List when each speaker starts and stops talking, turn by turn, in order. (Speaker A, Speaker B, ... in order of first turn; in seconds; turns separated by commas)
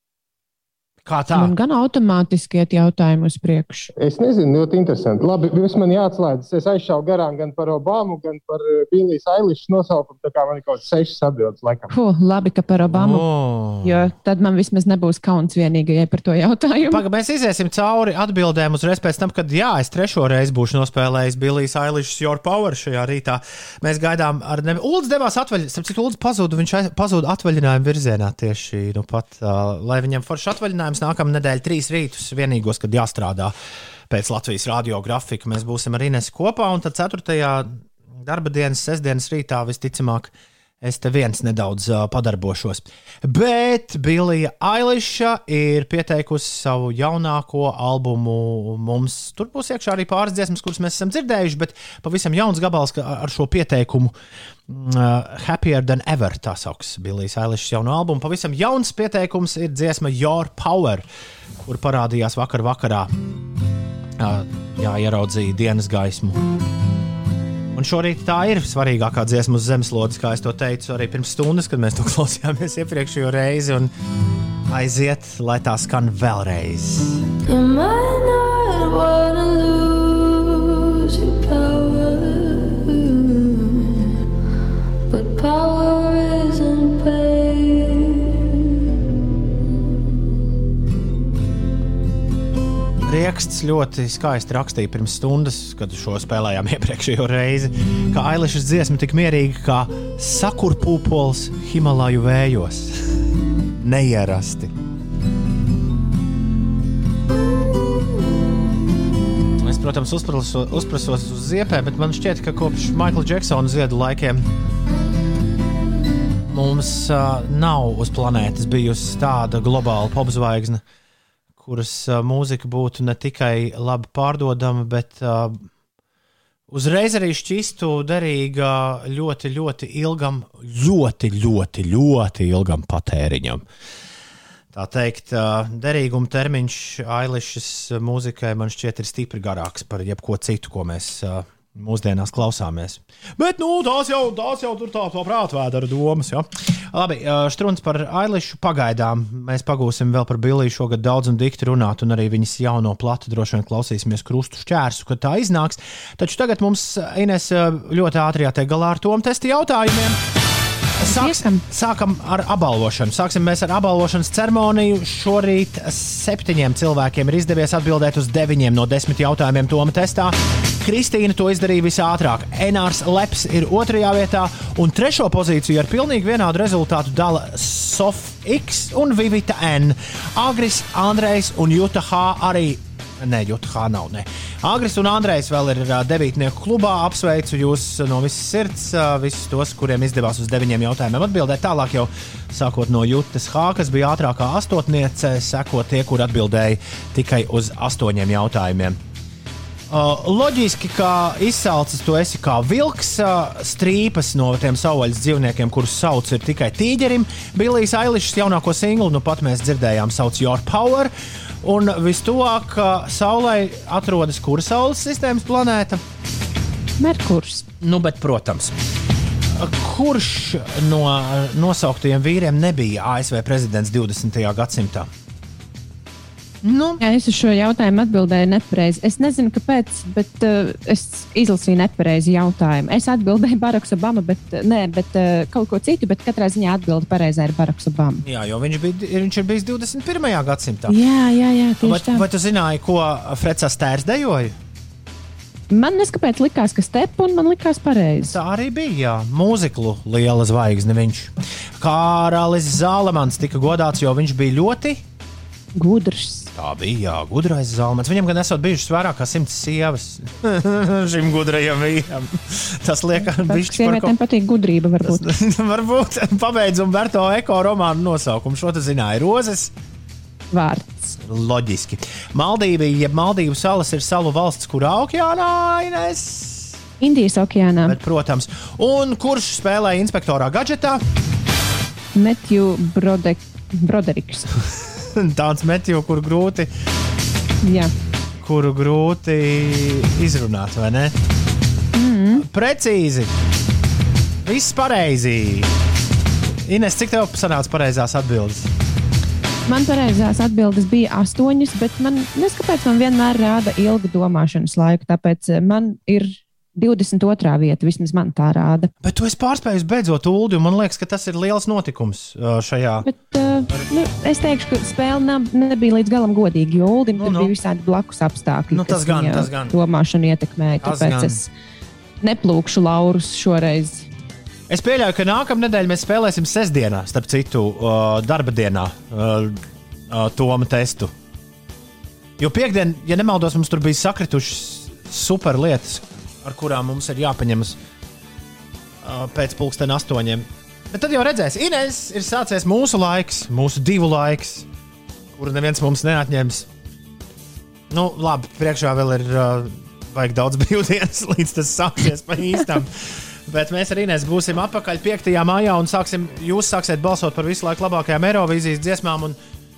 Speaker A: 1.0-1.6, Speaker B: 1.4-3.9, Speaker C: 4.0-11.9, Speaker B: 11.9-13.2, Speaker A: 12.9-14.1, Speaker B: 13.8-17.0, Speaker A: 16.9-33.5, Speaker A: 34.1-54.1, Speaker A: 54.7-61.1, Speaker A: 61.6-63.1, Speaker A: 64.2-66.4, Speaker A: 67.7-73.9, Speaker A: 74.7-77.2, Speaker D: 77.5-84.1, Speaker D: 85.1-88.5, Speaker A: 93.0-103.0, Speaker A: 103.8-104.7, Speaker A: 109.6-114.5, Speaker A: 116.5-120.8, Speaker A: 121.6-125.7, Speaker A: 126.7-133.6, Speaker A: 134.7-160.2, Speaker A: 161.0-199.0, Speaker B: 161.0-161.6, Speaker A: 199.9-216.0, Speaker B: 217.0-217.7, Speaker A: 217.8-218.8, Speaker A: 219.6-225.1, Speaker A: 226.6-227.0, Speaker B: 227.0-238.2, Speaker A: 238.2-241.0, Speaker B: 240.9-242.3, Speaker A: 241.8-244.6, Speaker B: 245.7-248.4, Speaker A: 248.2-255.0, Speaker B: 255.8-256.5, Speaker A: 256.6-264.1, Speaker B: 263.2-265.3, Speaker A: 265.0-269.7, Speaker B: 270.5-271.2, Speaker A: 271.2-276.8, Speaker B: 277.0-278.0, Speaker A: 277.8-281.0, Speaker B: 282.1-284.5, Speaker A: 284.7-286.7, Speaker B: 287.6-287.9, Speaker A: 288.4-291.1, Speaker B: 291.9-292.4, Speaker A: 292.4-293.3, Speaker A: 294.4-295.7, Speaker A: 296.6-298.7, Speaker B: 299.7-308.9, Speaker A: 309.0-313.1, Speaker B: 313.0-321.5, Speaker A: 317.2-317.5, Speaker A: 318.7-319.7, Speaker A: 320.8-321.4, Speaker B: 322.2-324.1, Speaker A: 324.7-331.1, Speaker A: 332.4-337.8, Speaker A: 339.0-344.7, Speaker A: 345.4-346.7, Speaker A: 347.9-359.4